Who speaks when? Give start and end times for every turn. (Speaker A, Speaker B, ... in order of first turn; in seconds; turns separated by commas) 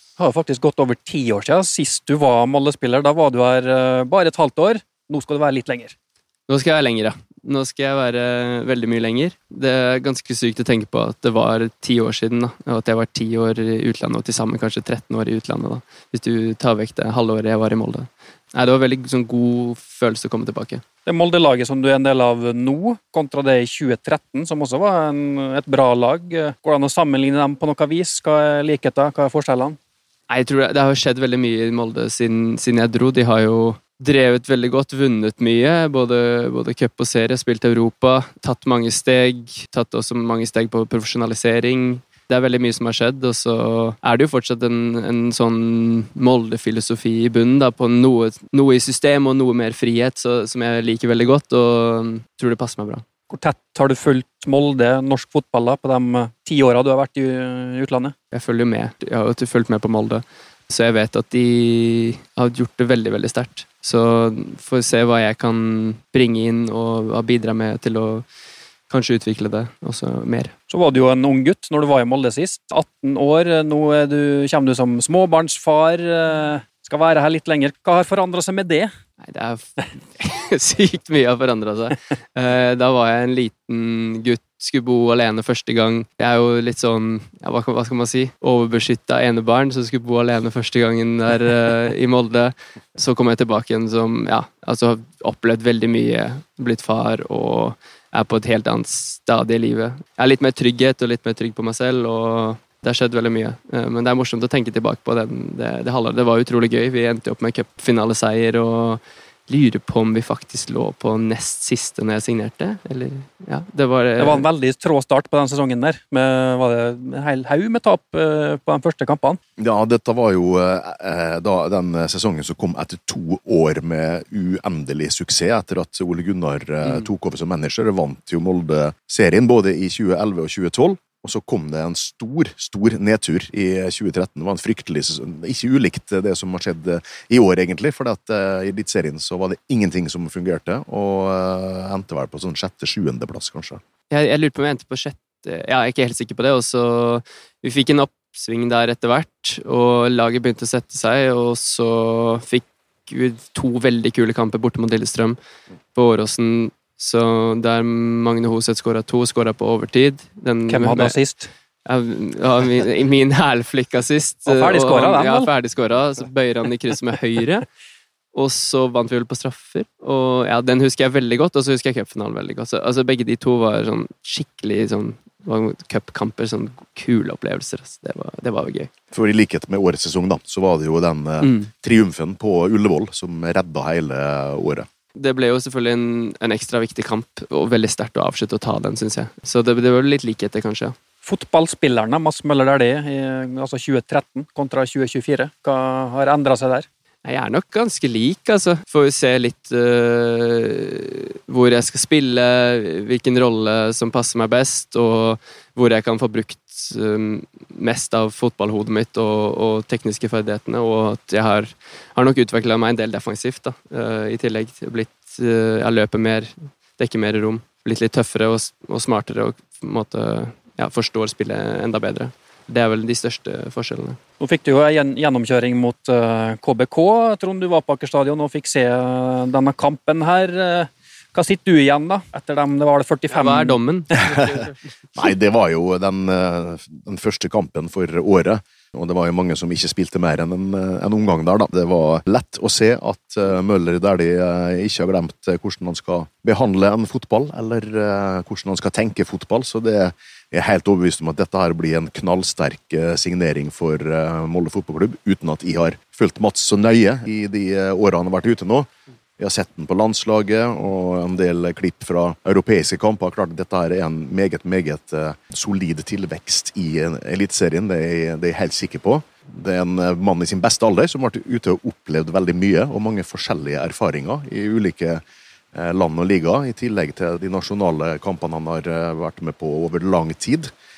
Speaker A: 0.2-5.9, Speaker B: 6.5-20.8, Speaker A: 21.1-29.8, Speaker B: 30.3-53.0, Speaker A: 53.3-58.1, Speaker B: 58.3-68.2, Speaker B: 68.9-70.5, Speaker A: 70.7-78.9, Speaker B: 79.2-114.5, Speaker A: 114.2-119.4, Speaker C: 119.6-143.8, Speaker B: 144.1-155.4, Speaker B: 155.9-161.2, Speaker A: 160.7-161.5, Speaker B: 161.8-167.6, Speaker A: 164.5-165.5, Speaker B: 168.3-178.9, Speaker C: 179.1-184.8, Speaker B: 181.4-181.7, Speaker B: 185.1-190.9, Speaker A: 191.2-196.8, Speaker B: 197.2-224.2, Speaker A: 224.4-233.8, Speaker B: 233.3-234.8, Speaker C: 234.2-234.6, Speaker C: 235.2-275.2, Speaker C: 275.7-280.7